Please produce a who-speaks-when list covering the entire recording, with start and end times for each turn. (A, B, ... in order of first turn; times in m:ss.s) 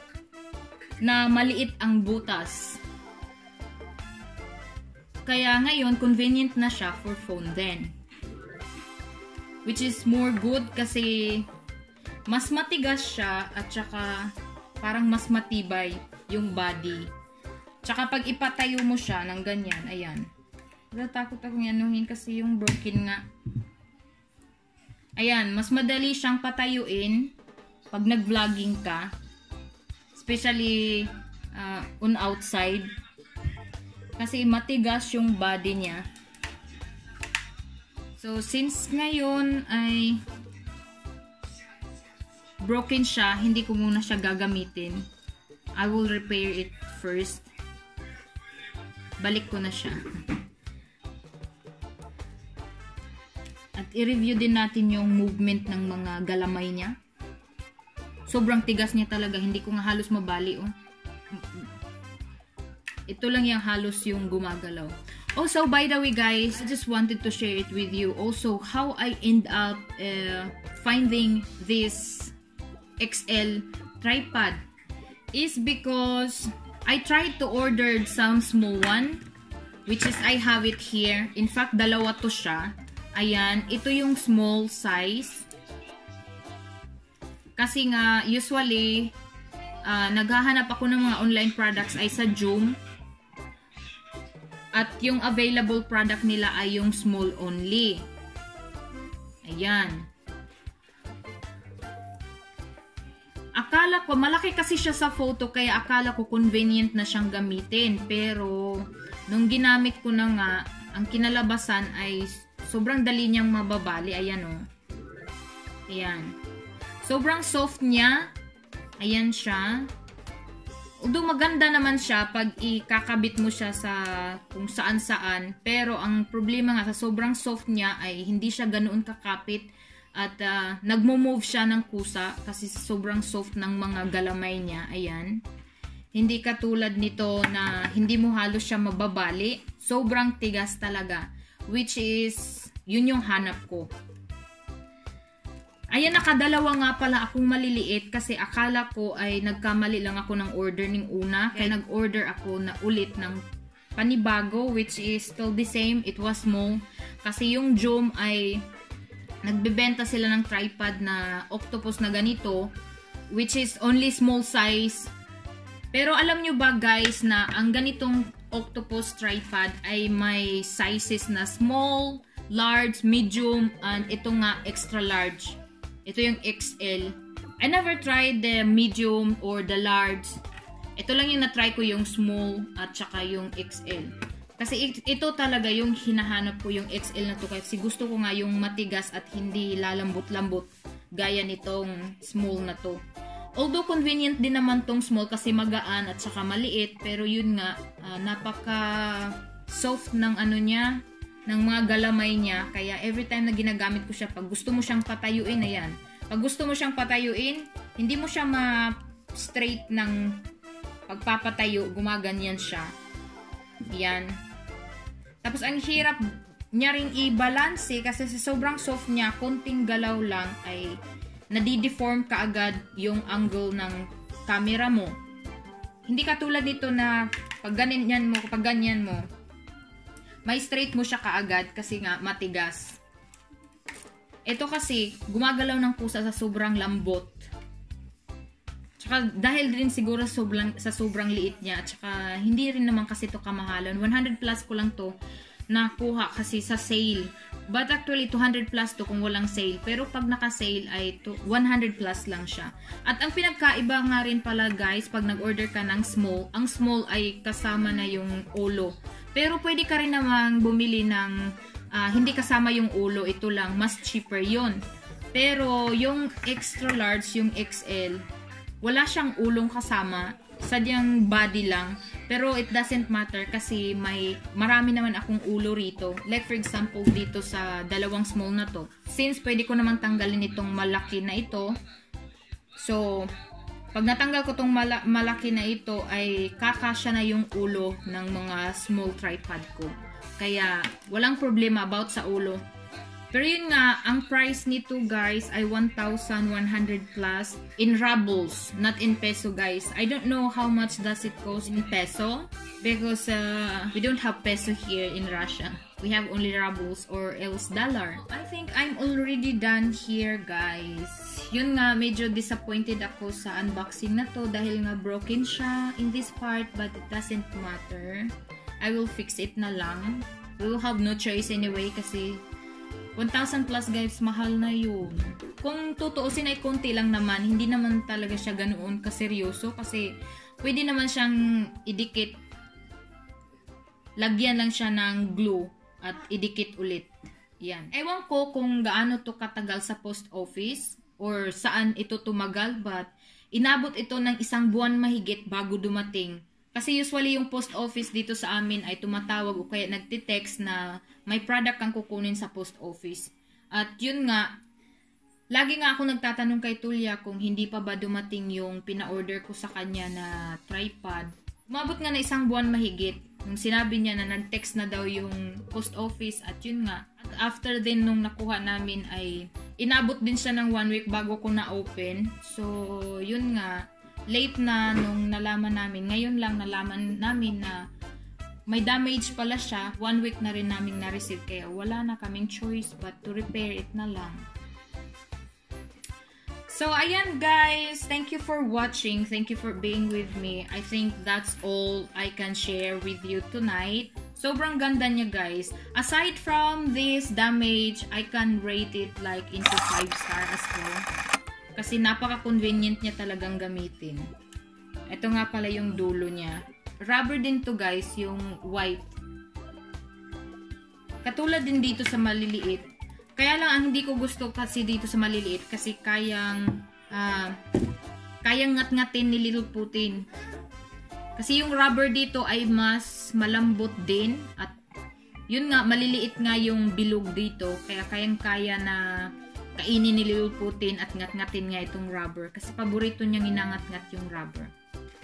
0:01.0-0:02.8 A
0:05.2-0:08.0 A
0:09.6-0:11.5 A
0:12.3-0:17.1 A
0:17.8-0:20.3 A
0:20.9-0:23.2 A
0:25.2-0:27.3 A
0:27.9-0:29.1 A
0:30.1-0:32.9 A
0:34.2-0:36.0 A
0:38.2-0:40.2 A
0:42.6-0:45.1 A
0:45.8-0:47.5 A
0:49.2-0:50.3 A
0:53.8-0:57.0 A
0:58.3-1:00.7 A
1:01.3-1:01.7 A
1:03.1-1:12.4 A
1:13.0-1:14.6 A
1:15.3-1:19.2 A
1:19.9-1:25.5 A
1:27.6-1:29.1 A
1:29.8-1:32.8 A
1:34.7-1:38.0 A
1:39.4-1:40.1 A
1:43.5-1:54.6 A
1:55.9-1:56.4 A
1:57.0-1:58.3 A
1:59.0-1:59.9 A
2:01.0-2:15.4 A
2:16.1-2:23.9 A
2:25.9-2:33.4 A
2:34.0-2:38.7 A
2:39.4-2:42.7 A
2:43.3-2:45.1 A
2:45.9-3:00.4 A
3:01.0-3:13.0 A
3:13.6-3:30.4 A
3:31.1-3:32.9 A
3:33.9-3:34.4 A
3:35.4-3:41.0 A
3:41.5-3:45.2 A
3:46.0-3:49.2 A
3:50.4-3:53.0 A
3:54.4-3:57.5 A
3:59.0-4:05.1 A
4:05.7-4:21.4 A
4:21.9-4:24.8 A
4:25.3-4:28.2 A
4:28.8-4:41.8 A
4:42.8-4:43.3 A
4:43.9-4:52.6 A
4:53.3-5:22.4 A
5:23.2-5:32.4 A
5:34.2-5:54.6 A
5:55.5-6:17.8 A
6:18.7-6:24.5 A
6:26.7-6:41.0 A
6:41.8-6:44.3 A
6:45.1-6:49.1 A
6:51.2-6:57.6 A
6:58.4-7:00.2 A
7:01.4-7:04.8 A
7:05.5-7:14.7 A